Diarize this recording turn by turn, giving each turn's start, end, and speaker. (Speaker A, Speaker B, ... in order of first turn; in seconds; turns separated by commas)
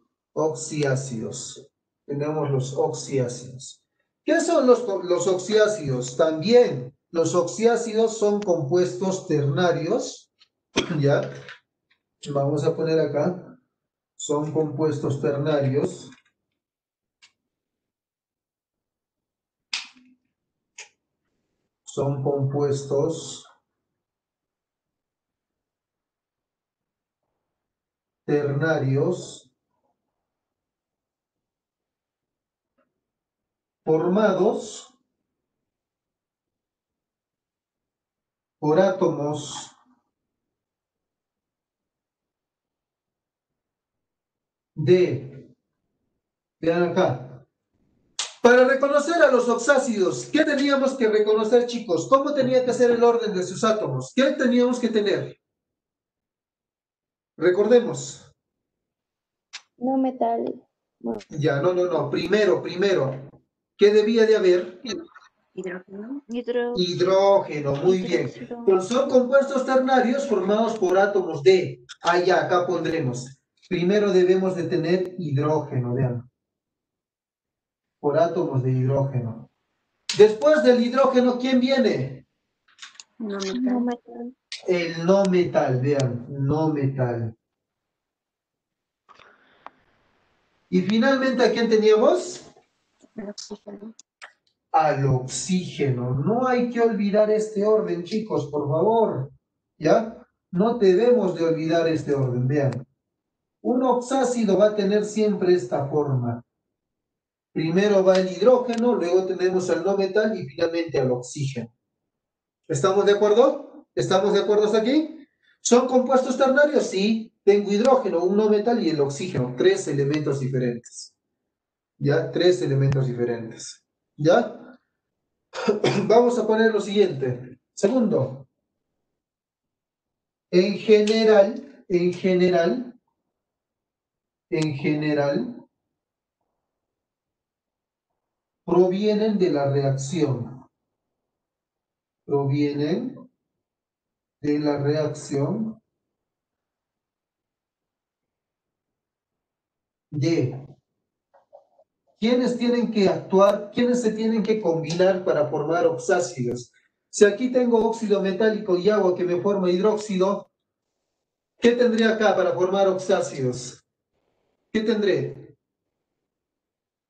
Speaker A: 0.3-10.3, Speaker A: 10.9-11.3, Speaker A: 12.2-13.6, Speaker A: 14.2-16.1, Speaker A: 21.9-23.5, Speaker A: 28.3-29.5, Speaker A: 33.9-34.9, Speaker A: 38.6-39.7, Speaker A: 44.8-45.5, Speaker A: 46.6-47.5, Speaker A: 48.4-55.4, Speaker A: 57.4-58.3, Speaker B: 59.8-61.2, Speaker A: 61.3-64.8, Speaker C: 65.5-66.2, Speaker B: 66.3-66.8, Speaker A: 66.7-76.3, Speaker B: 67.9-68.7, Speaker A: 78.0-79.5, Speaker A: 80.1-82.3, Speaker C: 83.2-83.9, Speaker B: 83.5-84.3, Speaker A: 84.7-87.3, Speaker A: 90.7-92.5, Speaker C: 93.2-93.9, Speaker A: 94.7-102.9, Speaker A: 103.6-106.4, Speaker A: 107.5-111.7, Speaker A: 112.7-121.1, Speaker A: 122.0-124.8, Speaker A: 125.7-128.5, Speaker A: 130.5-133.0, Speaker A: 134.5-135.6, Speaker A: 138.7-140.7, Speaker A: 142.3-143.2, Speaker A: 144.4-145.8, Speaker A: 150.1-150.6, Speaker A: 152.2-160.5, Speaker A: 161.6-163.8, Speaker A: 164.7-165.5